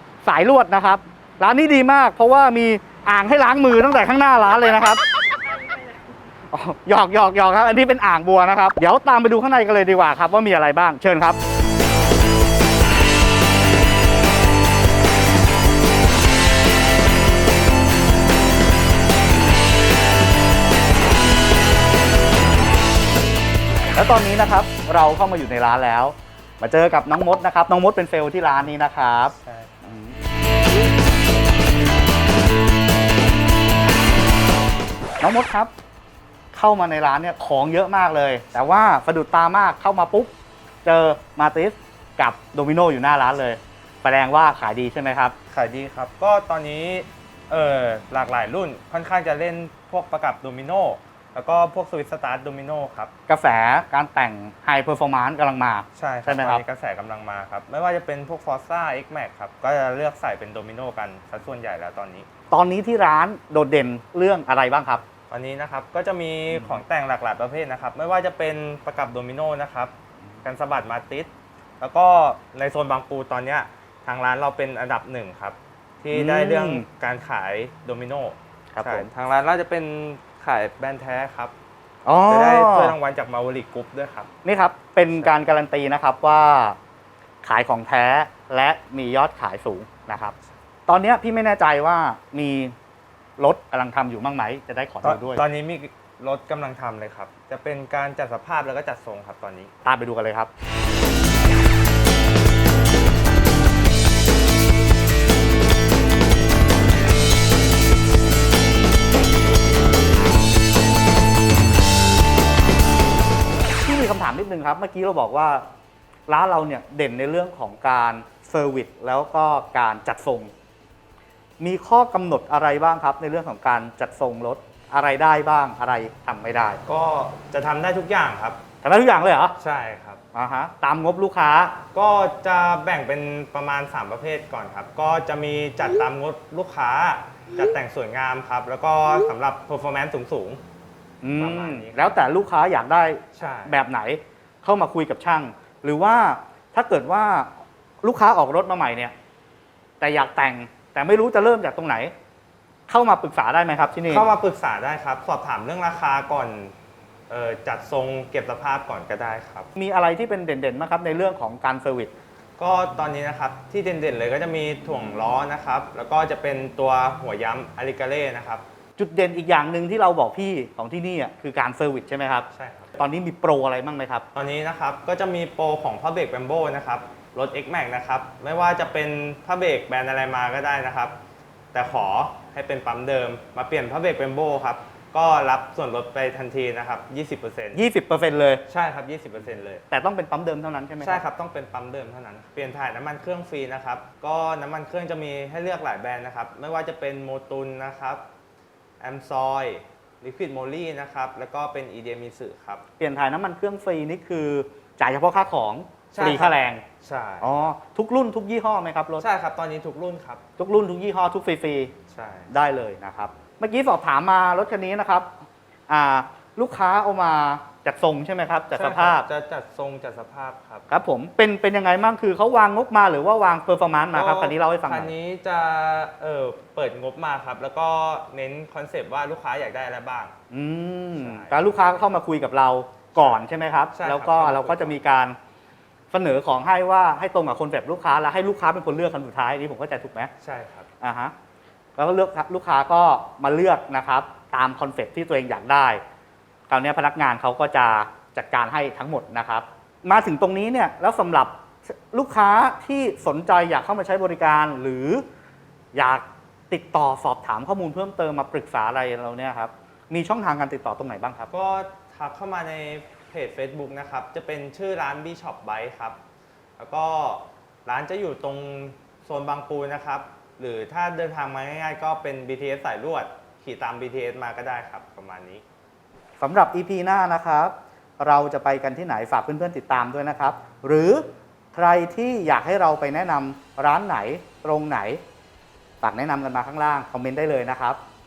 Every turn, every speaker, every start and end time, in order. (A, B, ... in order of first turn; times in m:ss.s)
0:00.2-0:05.0 A
0:06.5-0:11.4 A
0:23.9-0:30.2 A
0:29.4-0:29.7 B
0:35.2-0:35.7 A
0:36.5-0:40.3 A
0:40.8-0:45.3 A
0:45.5-0:53.1 B
0:53.3-0:56.6 A
0:55.9-1:02.3 B
1:02.5-1:05.0 A
1:05.3-1:11.3 B
1:11.8-1:21.5 B
1:16.1-1:16.8 A
1:18.7-1:19.0 A
1:22.0-1:23.0 A
1:22.3-1:24.3 B
1:24.4-1:26.8 A
1:27.4-1:30.3 A
1:30.9-1:32.7 A
1:33.4-1:35.4 A
1:35.0-1:39.7 B
1:39.8-1:40.5 A
1:53.8-1:55.6 A
1:56.3-2:00.5 A
2:01.6-2:06.8 A
2:06.8-2:08.6 B
2:08.8-2:09.5 A
2:09.6-2:10.2 B
2:10.3-2:11.8 A
2:11.9-2:20.6 B
2:21.2-2:29.1 A
2:21.4-2:22.2 B
2:23.3-2:23.8 B
2:30.0-2:32.1 A
2:32.9-2:34.3 A
2:34.1-2:36.7 B
2:37.3-2:39.7 B
2:39.8-2:42.1 A
2:42.6-2:48.6 B
2:49.0-2:54.2 A
2:52.5-2:53.0 B
2:54.3-3:01.2 B
3:01.7-3:07.8 B
3:07.7-3:08.6 A
3:08.7-3:09.8 B
3:09.9-3:11.2 A
3:11.0-3:18.2 B
3:19.0-3:22.8 B
3:23.0-3:26.8 A
3:26.1-3:27.5 B
3:27.4-3:29.2 A
3:29.2-3:30.4 B
3:30.6-3:31.9 A
3:32.1-3:32.5 B
3:32.5-3:35.4 A
3:35.9-3:39.3 A
3:38.7-3:40.9 B
3:40.9-3:45.1 A
3:44.1-3:50.3 B
3:50.5-3:55.4 A
3:51.2-3:52.0 B
3:53.1-3:54.9 B
3:56.1-4:00.3 A
4:00.4-4:00.9 B
4:01.0-4:01.3 A
4:02.0-4:06.0 A
4:06.7-4:15.2 A
4:15.9-4:21.5 A
4:21.5-4:26.2 B
4:26.8-4:35.6 B
4:36.4-4:45.2 A
4:46.0-4:48.0 A